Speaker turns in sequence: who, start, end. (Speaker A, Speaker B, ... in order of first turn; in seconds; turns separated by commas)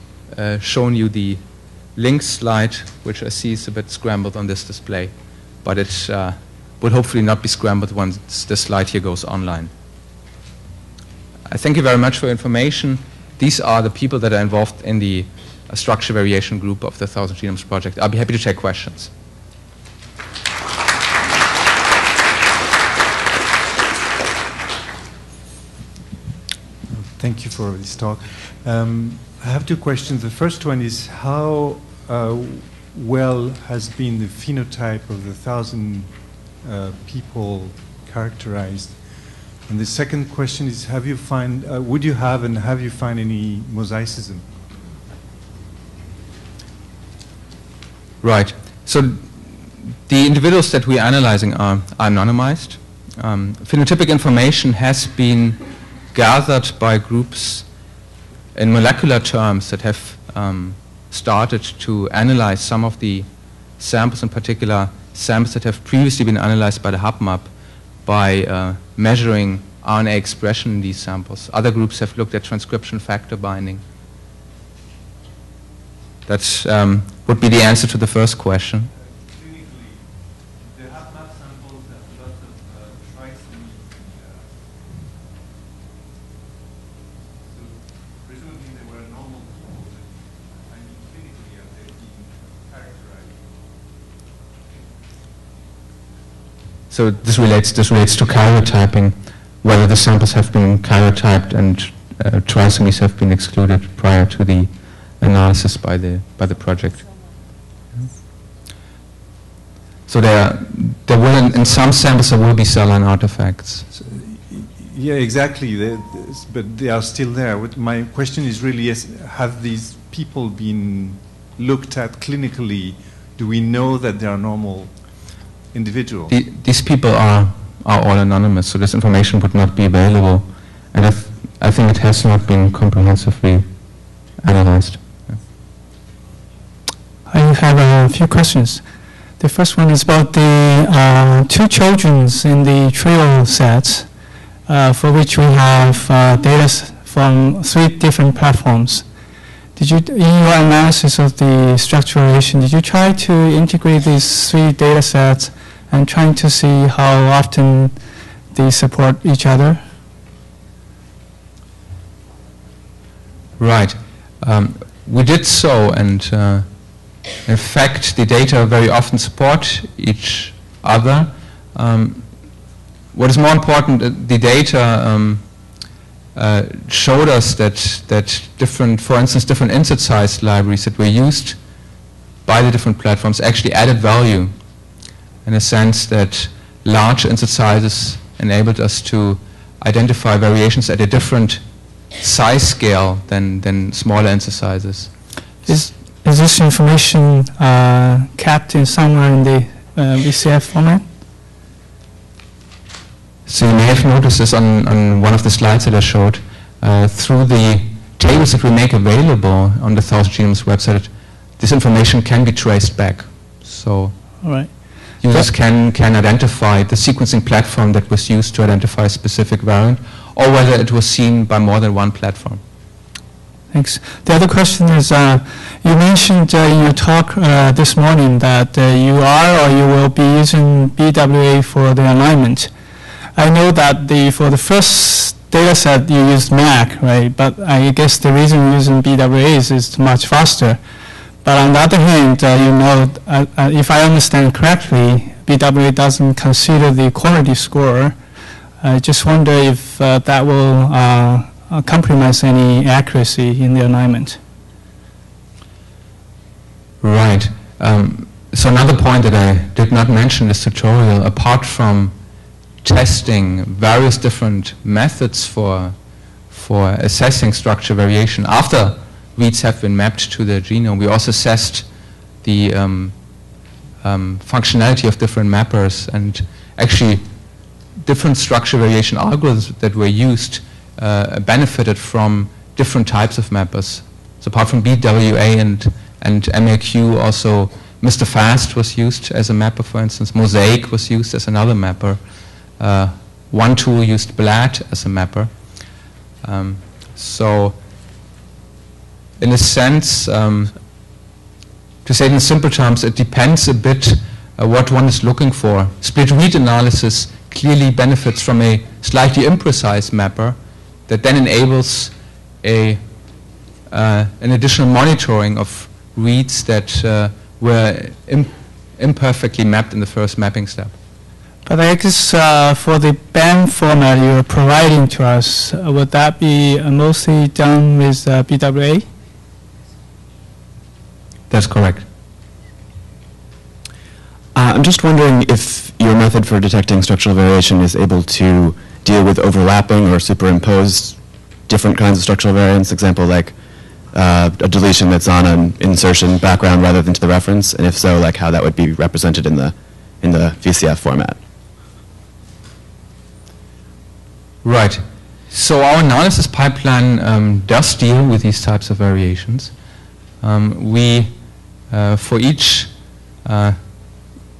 Speaker A: 0.3-1.4, Speaker A: 2.0-5.1, Speaker A: 5.6-9.7, Speaker A: 11.5-19.1, Speaker B: 26.9-36.1, Speaker B: 36.6-44.5, Speaker A: 48.2-49.2, Speaker A: 50.1-55.6, Speaker A: 56.1-57.7, Speaker A: 58.5-63.3, Speaker A: 63.8-67.5, Speaker A: 68.0-73.8, Speaker A: 76.3-78.9, Speaker B: 78.9-85.3, Speaker B: 87.4-93.8, Speaker A: 96.9-107.0, Speaker A: 110.1-113.9, Speaker B: 113.9-125.0, Speaker B: 125.7-126.3, Speaker A: 126.3-133.7, Speaker A: 134.4-135.1, Speaker C: 137.3-138.8, Speaker C: 139.4-144.1, Speaker C: 144.7-149.1, Speaker C: 149.8-159.8, Speaker A: 163.6-166.7, Speaker A: 167.4-172.3, Speaker A: 173.1-175.4, Speaker A: 176.3-181.6, Speaker A: 182.5-184.5, Speaker A: 185.5-191.6, Speaker A: 192.2-195.1, Speaker C: 195.7-201.0, Speaker A: 203.5-214.2, Speaker C: 214.4-215.1, Speaker A: 215.2-222.6, Speaker C: 223.7-232.7, Speaker C: 233.3-240.8, Speaker C: 241.4-248.2, Speaker C: 248.8-254.4, Speaker A: 257.0-262.1, Speaker A: 262.8-265.9, Speaker A: 266.5-271.9, Speaker A: 272.4-273.1, Speaker A: 274.0-277.2, Speaker A: 278.0-292.2, Speaker A: 292.8-295.5, Speaker A: 296.4-297.8, Speaker A: 299.4-300.7, Speaker A: 302.1-310.6, Speaker A: 311.1-313.0, Speaker A: 313.9-320.9, Speaker C: 321.7-329.1, Speaker A: 331.5-332.1, Speaker D: 334.6-343.6, Speaker D: 344.1-351.4, Speaker A: 354.6-359.7, Speaker A: 360.4-361.3, Speaker A: 361.9-362.9, Speaker A: 363.4-363.8